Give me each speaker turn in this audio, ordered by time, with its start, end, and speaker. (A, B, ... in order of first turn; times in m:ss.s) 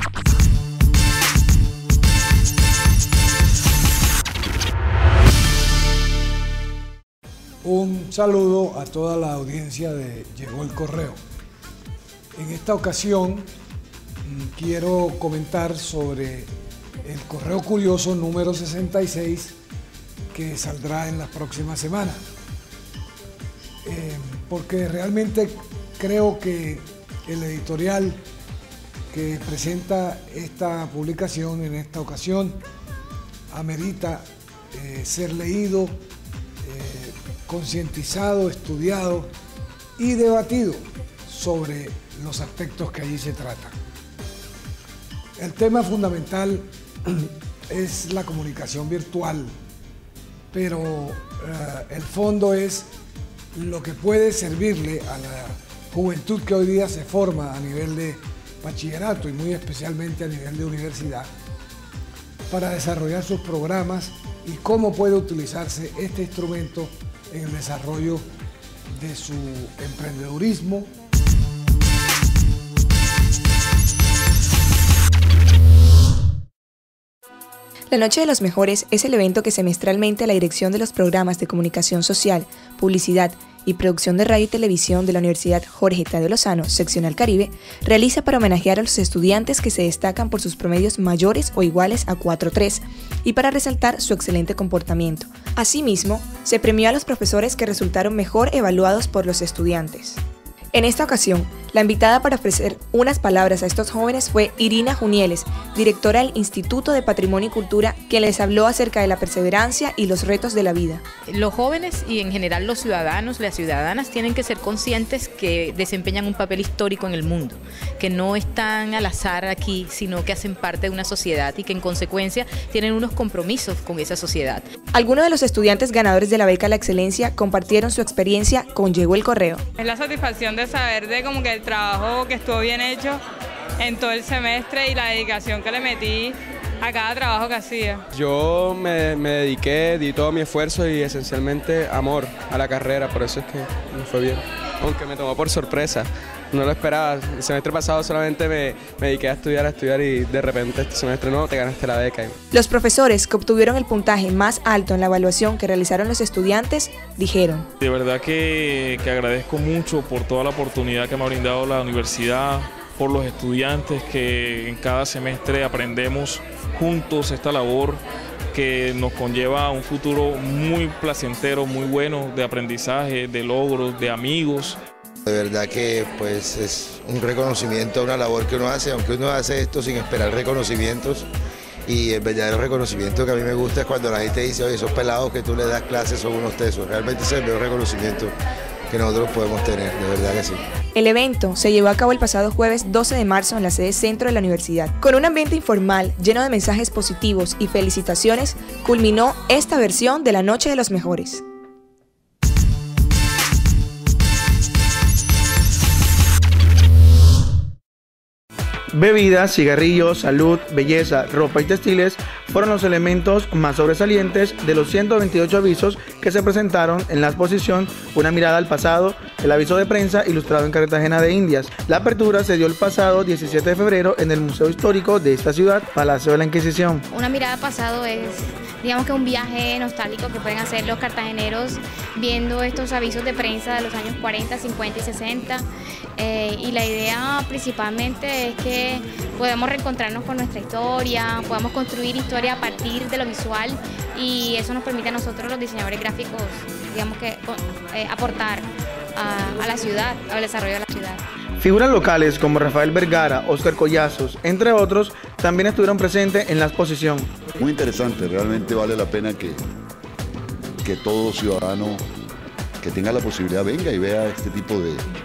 0:07.6-0:11.2 A
0:12.4-0:13.5 A
0:14.2-0:16.5 A
0:17.0-0:19.6 A
0:20.3-0:22.2 A
0:23.8-0:28.2 A
0:29.1-0:32.6 A
0:33.5-0:36.0 A
0:36.6-0:39.3 A
0:40.0-0:43.8 A
0:45.4-0:49.5 A
0:50.5-0:52.9 A
0:53.6-1:01.3 A
1:02.5-1:08.3 A
1:08.9-1:10.9 A
1:17.9-1:40.2 B
1:40.7-1:51.0 B
1:51.2-2:04.7 C
2:04.9-2:09.6 B
2:09.8-2:13.2 D
2:13.8-2:18.0 D
2:18.1-2:32.4 E
2:32.5-2:37.7 B
2:37.8-2:48.0 F
2:48.5-2:54.8 F
2:55.3-3:01.3 G
3:01.9-3:08.3 G
3:08.9-3:10.6 G
3:10.9-3:21.4 B
3:28.9-3:47.0 H
3:47.1-4:11.2 I
4:11.6-4:17.3 H
4:17.6-4:19.6 J
4:20.8-4:22.0 J
4:22.8-4:25.0 J